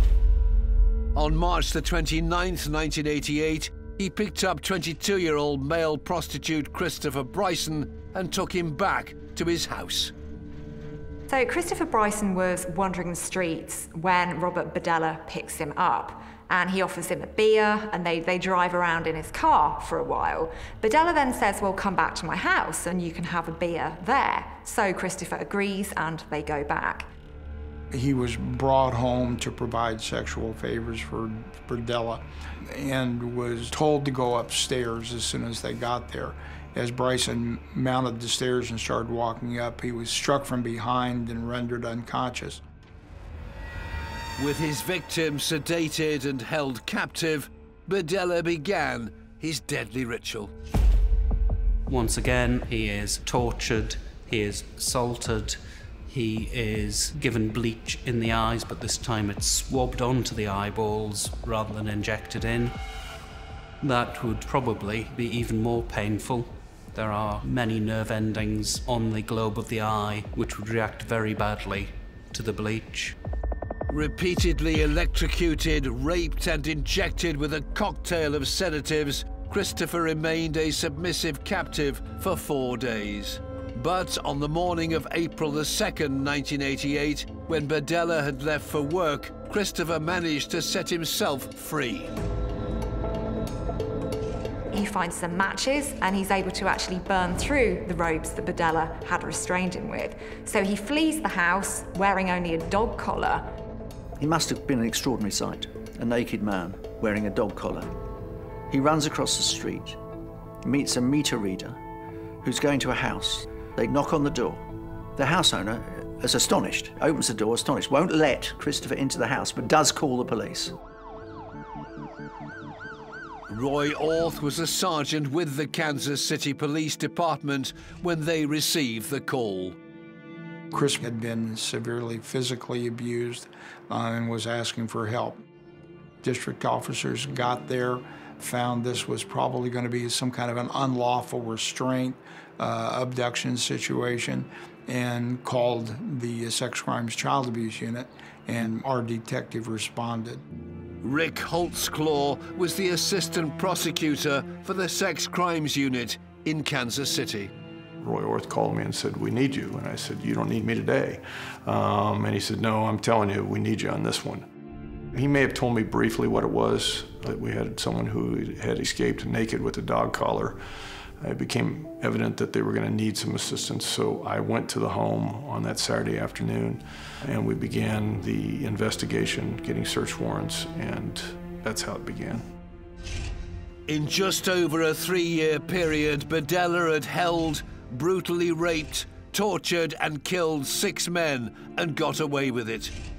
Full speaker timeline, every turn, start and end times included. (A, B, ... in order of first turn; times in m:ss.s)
0:01.2-0:10.1 A
0:11.3-0:27.1 B
0:27.9-0:42.6 C
0:44.4-0:50.5 A
0:51.9-1:02.8 D
1:03.8-1:13.2 D
1:13.9-1:32.1 A
1:34.7-1:43.5 B
1:44.2-1:47.9 E
1:48.7-1:50.0 E
1:50.6-1:51.8 E
1:52.4-1:54.6 E
1:55.2-2:00.8 E
2:03.5-2:09.8 A
2:10.7-2:15.4 C
2:16.2-2:30.4 C
2:31.0-2:37.5 A
2:38.0-2:44.5 F
2:45.1-2:50.6 F
2:51.2-3:02.5 F
3:03.9-3:13.0 A